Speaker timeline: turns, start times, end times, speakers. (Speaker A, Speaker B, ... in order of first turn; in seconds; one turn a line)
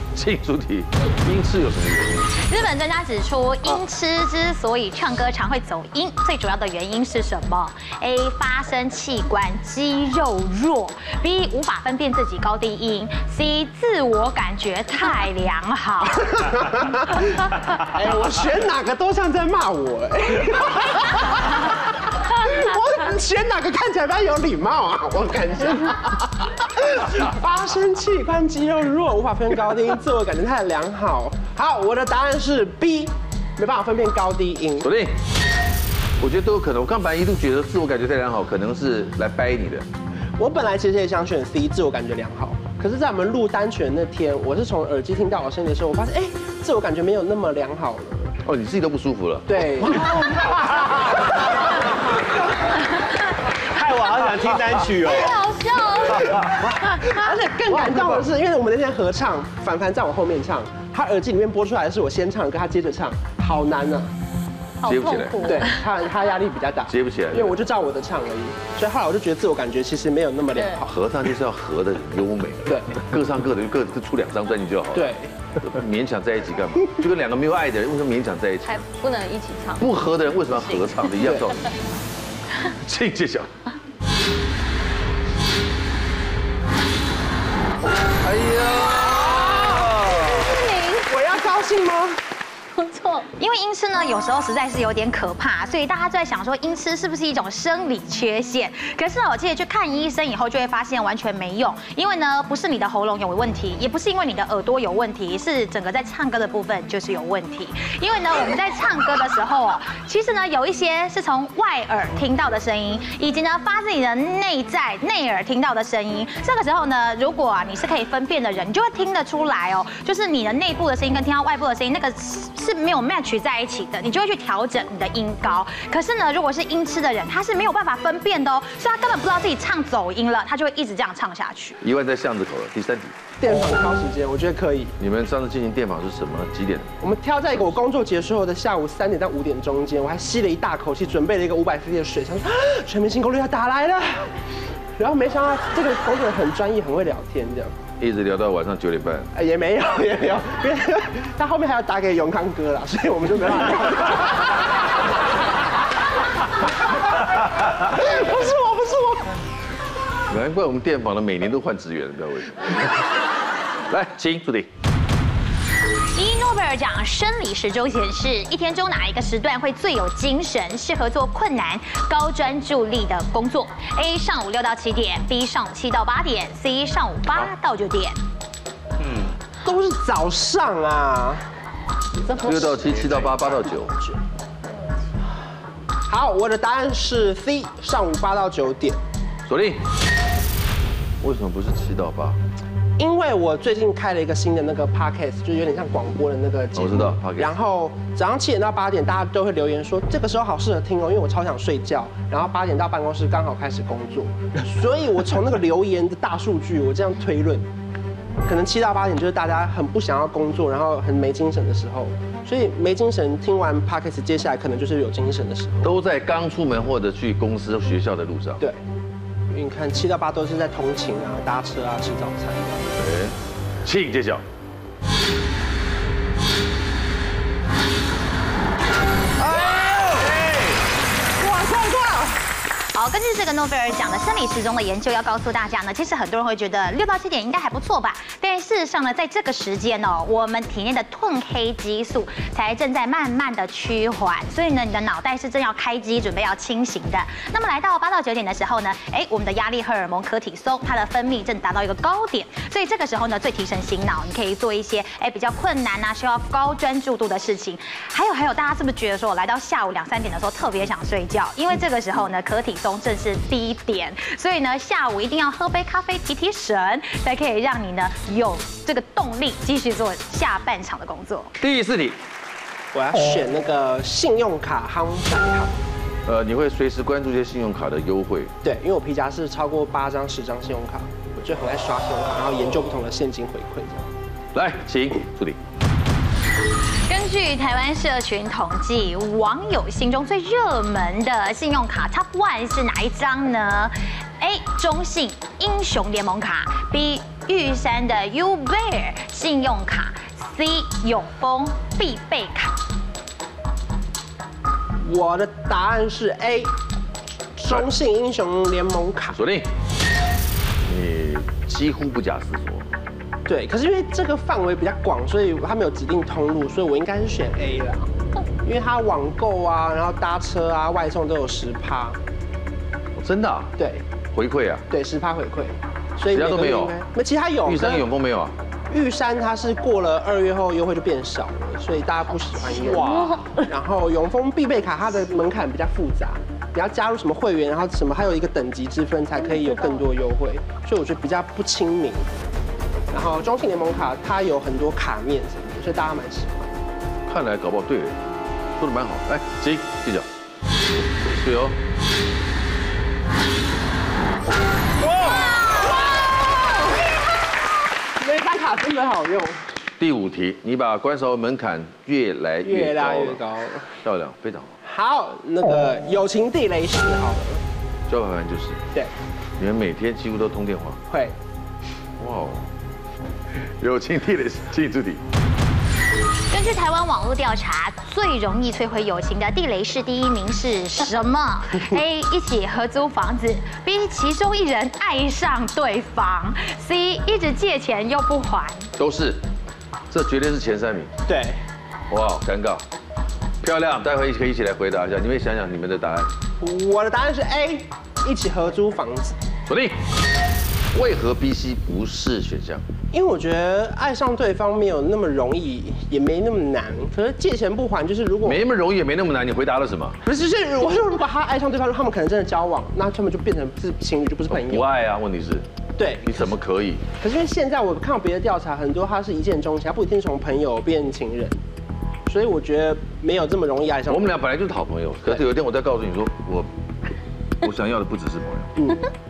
Speaker A: 0.1-2.4
Speaker B: 2.4-16.5
Speaker C: 16.4-34.9
Speaker A: 34.8-35.2
Speaker A: 36.2-39.9
Speaker C: 40.4-48.3
Speaker A: 48.4-50.2
Speaker C: 49.5-51.0
Speaker D: 53.7-55.4
Speaker E: 55.2-56.2
Speaker C: 56.0-64.1
Speaker A: 64.8-65.6
Speaker B: 64.9-65.2
Speaker C: 65.4-71.0
Speaker A: 66.9-67.6
Speaker A: 70.8-78.8
Speaker C: 72.7-73.0
Speaker C: 74.9-75.3
Speaker E: 78.7-79.9
Speaker A: 79.8-81.6
Speaker E: 80.6-80.9
Speaker C: 81.2-81.5
Speaker A: 82.7-83.5
Speaker A: 88.2-90.6
Speaker C: 89.3-90.4
Speaker E: 90.5-91.0
Speaker C: 90.9-92.2
Speaker E: 92.7-93.3
Speaker B: 93.4-131.8
Speaker A: 131.8-133.1
Speaker C: 133.4-134.9
Speaker A: 135.0-136.9
Speaker C: 137.0-144.3
Speaker C: 145.0-147.7
Speaker A: 148.0-149.3
Speaker C: 149.3-154.8
Speaker C: 156.8-159.4
Speaker A: 160.3-163.1
Speaker A: 163.9-164.7
Speaker B: 166.1-178.2
Speaker D: 179.0-179.3
Speaker C: 179.6-181.4
Speaker C: 182.1-184.2
Speaker A: 182.4-183.9
Speaker C: 186.1-189.0
Speaker A: 189.4-189.8
Speaker A: 191.2-192.4
Speaker C: 193.0-207.7
Speaker A: 196.7-197.6
Speaker C: 208.4-215.9
Speaker A: 215.8-218.7
Speaker C: 219.5-222.9
Speaker A: 222.9-224.4
Speaker A: 229.4-230.7
Speaker C: 231.4-232.4
Speaker B: 232.9-271.5
Speaker A: 271.6-272.2
Speaker C: 272.9-275.8
Speaker A: 276.2-278.5
Speaker C: 278.6-284.1
Speaker A: 284.5-285.6
Speaker B: 287.1-302.7
Speaker C: 305.0-306.8
Speaker C: 307.6-309.4
Speaker A: 309.3-309.7
Speaker A: 310.8-312.9
Speaker C: 313.5-318.1
Speaker C: 318.6-322.2
Speaker A: 323.1-323.7
Speaker C: 323.8-324.0
Speaker A: 324.3-324.8
Speaker C: 324.9-328.1
Speaker A: 326.3-327.0
Speaker A: 327.6-328.5
Speaker C: 328.9-342.3
Speaker A: 332.8-333.4
Speaker C: 343.1-346.7
Speaker A: 347.3-348.2
Speaker A: 348.8-350.3
Speaker A: 351.0-351.8
Speaker C: 358.2-359.6
Speaker A: 360.0-364.7
Speaker C: 362.6-363.9
Speaker C: 364.8-367.6
Speaker A: 368.1-368.8
Speaker A: 369.6-371.0
Speaker C: 371.1-371.3
Speaker A: 372.2-372.7
Speaker A: 373.5-375.4
Speaker B: 376.5-388.9
Speaker A: 389.0-389.4
Speaker A: 390.1-391.1
Speaker C: 391.3-391.6
Speaker A: 392.1-392.9
Speaker A: 393.6-396.3
Speaker C: 396.6-399.4
Speaker A: 399.6-400.0
Speaker A: 400.9-402.8
Speaker C: 403.1-408.6
Speaker A: 408.4-410.2
Speaker C: 410.2-414.9
Speaker A: 414.5-415.7
Speaker C: 416.0-416.5
Speaker A: 416.2-417.0
Speaker C: 417.2-421.6
Speaker C: 422.2-424.4
Speaker A: 424.1-426.7
Speaker A: 427.6-428.9
Speaker C: 428.8-429.1